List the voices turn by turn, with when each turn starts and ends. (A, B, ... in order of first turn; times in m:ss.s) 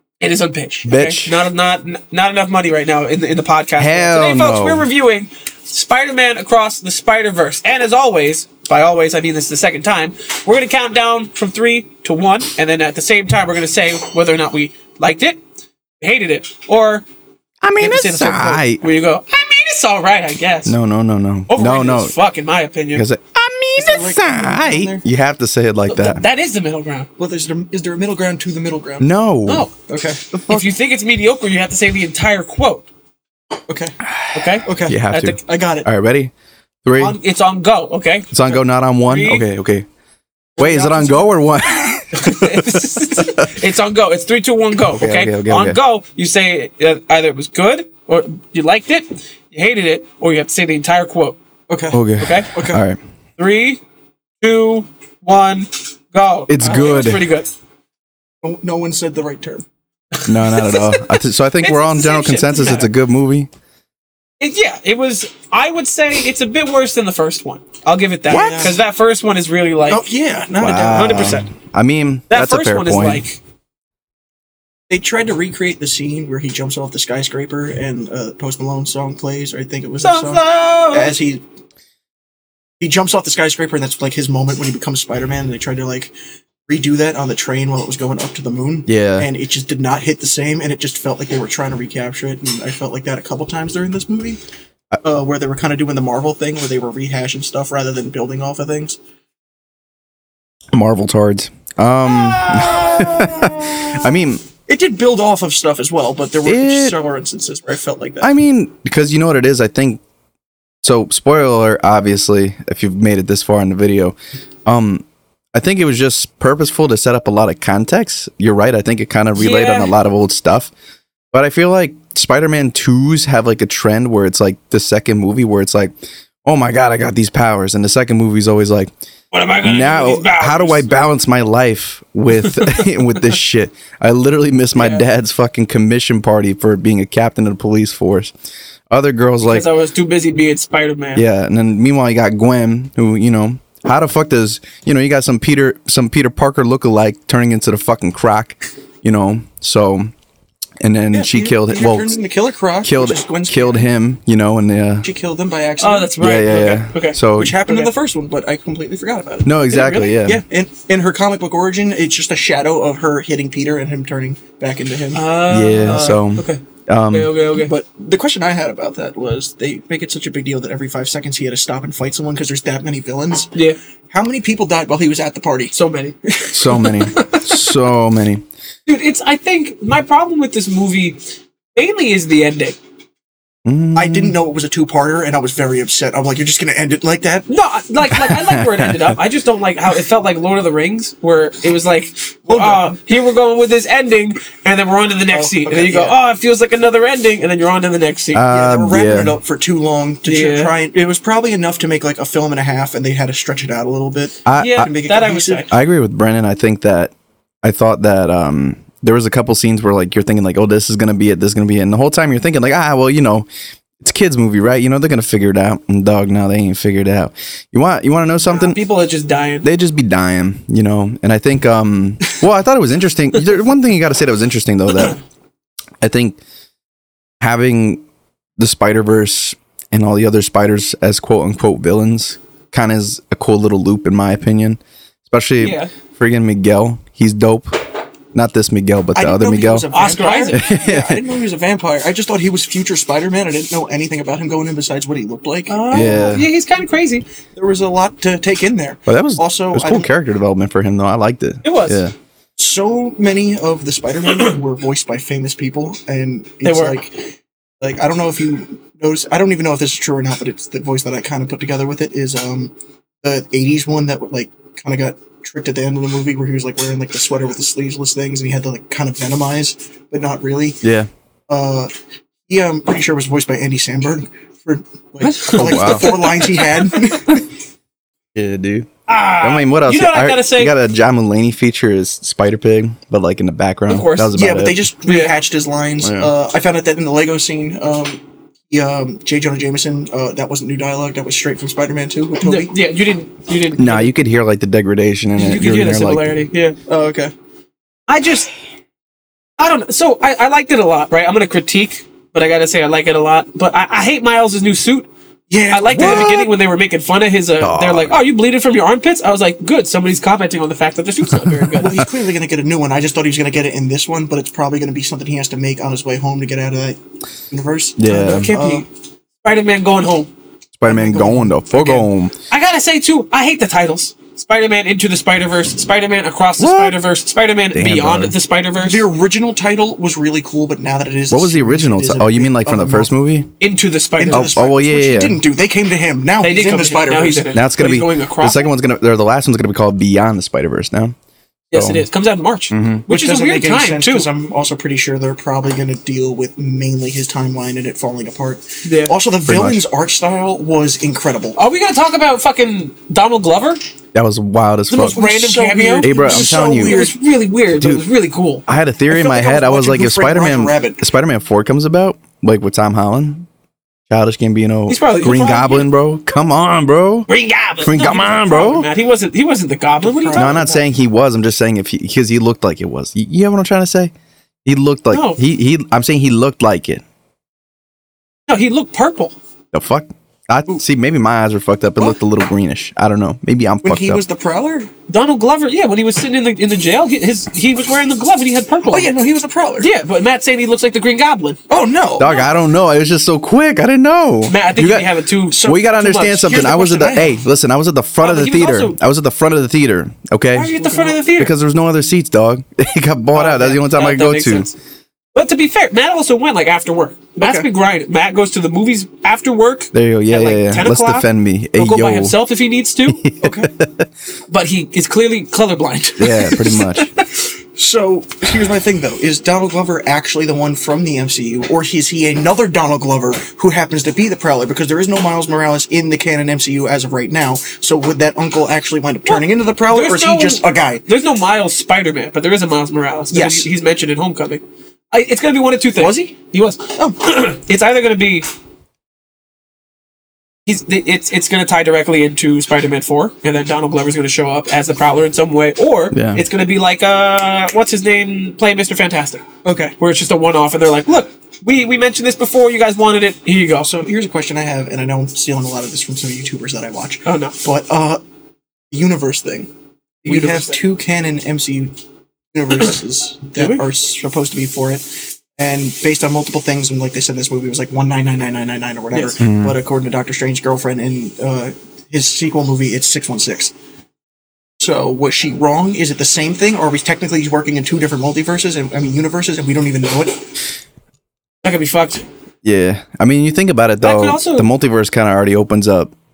0:00.2-0:15.4 A
0:00.8-0:01.4 B
0:03.8-0:04.9 B
0:16.0-0:17.0 A
0:17.6-0:18.8 B
0:17.8-0:20.7 A
0:20.6-0:22.1 B
0:21.5-0:23.0 A
0:22.9-0:26.2 B
0:23.8-0:25.0 C
0:25.9-0:27.1 A
0:27.2-0:29.1 C
0:29.0-0:29.7 B
0:29.9-0:30.2 C
0:30.3-0:30.6 B
0:30.5-0:32.8 A
0:33.7-0:33.9 C
0:34.0-0:36.3 B
0:34.3-0:35.4 A
0:34.6-0:35.9 C
0:36.8-0:37.2 B
0:37.0-0:39.4 A
0:38.3-0:39.8 B
0:40.6-0:41.3 A
0:40.6-0:43.4 B
0:42.1-0:51.4 A
0:44.9-0:45.8 B
0:51.7-0:52.8 C
0:51.9-0:53.0 B
0:52.2-0:52.5 A
0:53.4-0:53.8 A
0:54.4-0:57.5 A
0:56.5-0:57.2 B
0:58.4-0:59.6 C
1:00.1-1:02.9 A
1:00.2-1:03.5 B
1:04.4-1:10.0 A
1:08.3-1:08.7 B
1:08.3-1:08.8 C
1:09.9-1:11.4 C
1:10.6-1:13.2 B
1:10.8-1:11.4 A
1:12.3-1:13.4 A
1:14.9-1:21.4 C
1:20.0-1:21.1 A
1:22.8-1:26.1 C
1:26.7-1:34.4 C
1:28.9-1:29.3 B
1:35.0-1:39.0 C
1:40.7-1:44.4 B
1:42.4-1:43.9 C
1:44.7-1:48.3 C
1:46.4-1:47.0 B
1:48.2-1:50.0 B
1:50.8-2:00.7 B
1:59.3-1:59.9 A
2:01.3-2:05.9 B
2:06.4-2:08.9 B
2:09.3-2:11.1 A
2:09.6-2:18.3 B
2:12.4-2:12.9 A
2:14.8-2:15.0 A
2:18.9-2:19.7 B
2:19.4-2:21.2 A
2:21.1-2:30.1 B
2:30.8-2:32.2 B
2:31.1-2:33.9 C
2:32.8-2:35.1 B
2:35.0-2:36.2 C
2:35.8-2:37.9 A
2:36.2-2:37.6 B
2:37.3-2:39.6 C
2:39.4-2:40.4 B
2:39.7-2:40.2 A
2:40.2-2:45.2 C
2:45.1-2:47.7 A
2:45.5-2:47.3 B
2:45.8-2:46.2 C
2:47.5-2:53.5 C
2:54.1-2:55.7 C
2:55.7-2:56.1 A
2:56.3-2:56.6 C
2:56.5-2:58.4 B
2:56.7-2:57.7 A
2:58.8-3:01.2 A
3:01.7-3:02.8 A
3:03.6-3:04.4 B
3:03.9-3:07.5 C
3:07.5-3:18.4 A
3:08.1-3:09.2 B
3:12.4-3:13.0 C
3:15.3-3:16.2 C
3:18.3-3:19.4 B
3:18.5-3:25.7 C
3:20.2-3:20.7 A
3:24.4-3:24.9 B
3:24.5-3:25.7 A
3:25.7-3:33.5 B
3:34.0-3:38.8 B
3:38.5-3:39.7 A
3:39.6-3:45.2 B
3:46.0-3:46.4 B
3:47.4-3:48.0 B
3:48.6-3:57.8 B
3:55.6-3:55.9 A
3:58.3-3:59.9 B
3:59.1-4:06.2 C
3:59.9-4:00.6 A
4:00.5-4:01.2 B
4:05.7-4:07.2 A
4:05.9-4:06.5 B
4:07.5-4:10.1 C
4:09.1-4:12.1 B
4:11.6-4:12.0 A
4:12.6-4:30.8 C
4:16.6-4:17.0 A
4:30.8-4:31.1 B
4:31.5-4:31.9 C
4:32.5-4:37.4 C
4:35.2-4:36.8 A
4:35.6-4:36.2 B
4:38.3-4:38.9 B
4:39.1-4:40.7 A
4:39.4-4:44.9 B
4:43.9-4:44.4 A
4:44.3-4:52.7 C
4:45.0-4:45.3 A
4:46.0-4:46.3 B
4:52.4-4:54.1 A
4:53.8-4:56.4 B
4:55.4-4:56.8 A
4:56.9-4:57.3 C
4:58.1-4:58.5 A
4:59.6-5:05.1 A
5:05.5-5:06.5 C
5:05.7-5:12.0 A
5:05.9-5:06.5 B
5:07.6-5:08.2 B
5:11.8-5:17.0 C
5:17.5-5:18.8 C
5:18.0-5:18.5 B
5:18.1-5:18.9 A
5:19.4-5:20.3 A
5:20.7-5:22.3 B
5:20.8-5:22.1 C
5:22.5-5:29.0 A
5:26.6-5:27.0 B
5:27.7-5:28.3 B
5:28.8-5:33.1 C
5:31.3-5:33.5 B
5:33.6-5:34.5 A
5:34.2-5:37.5 C
5:34.3-5:35.4 B
5:36.4-5:38.7 A
5:37.5-5:41.1 B
5:41.7-5:44.3 A
5:41.7-5:42.0 B
5:42.7-5:43.1 B
5:43.1-5:51.6 C
5:48.8-5:49.1 A
5:49.4-5:49.8 B
5:51.6-5:53.8 A
5:54.1-5:55.2 B
5:54.9-5:58.6 A
5:55.1-5:57.2 C
5:56.0-5:57.1 B
5:57.8-5:58.0 B
5:58.7-6:03.5 B
5:59.1-6:01.0 C
6:04.1-6:07.3 B
6:04.9-6:05.9 A
6:07.3-6:10.5 A
6:07.8-6:08.9 B
6:10.0-6:10.8 C
6:10.4-6:14.1 B
6:14.6-6:17.0 B
6:15.1-6:15.4 A
6:18.5-6:19.3 A
6:19.7-6:24.2 B
6:23.8-6:24.9 C
6:25.1-6:29.1 A
6:28.9-6:29.9 C
6:29.8-6:31.6 A
6:31.7-6:32.5 C
6:32.2-6:44.7 B
6:34.5-6:36.3 A
6:35.5-6:37.3 C
6:38.2-6:39.0 A
6:40.5-6:41.5 A
6:40.7-6:41.2 C
6:43.3-6:44.7 A
6:45.3-6:53.2 A
6:47.4-6:47.6 C
6:49.9-6:52.4 B
6:53.1-6:54.0 B
6:53.4-6:53.7 C
6:54.5-6:57.3 A
6:56.2-6:57.1 B
6:57.8-7:11.0 C
7:09.3-7:18.5 A
7:13.3-7:13.7 C
7:16.0-7:16.3 C
7:20.6-7:29.4 A
7:26.1-7:26.4 B
7:29.6-7:29.9 C
7:30.0-7:33.9 A
7:33.8-7:38.2 C
7:37.2-7:37.6 A
7:38.9-7:39.7 C
7:40.2-7:41.9 C
7:40.2-7:40.8 A
7:42.5-7:53.7 C
7:43.6-7:43.8 A
7:49.4-7:49.8 B
7:54.8-8:00.5 C
8:01.6-8:02.2 A
8:02.6-8:06.1 B
8:04.0-8:04.7 A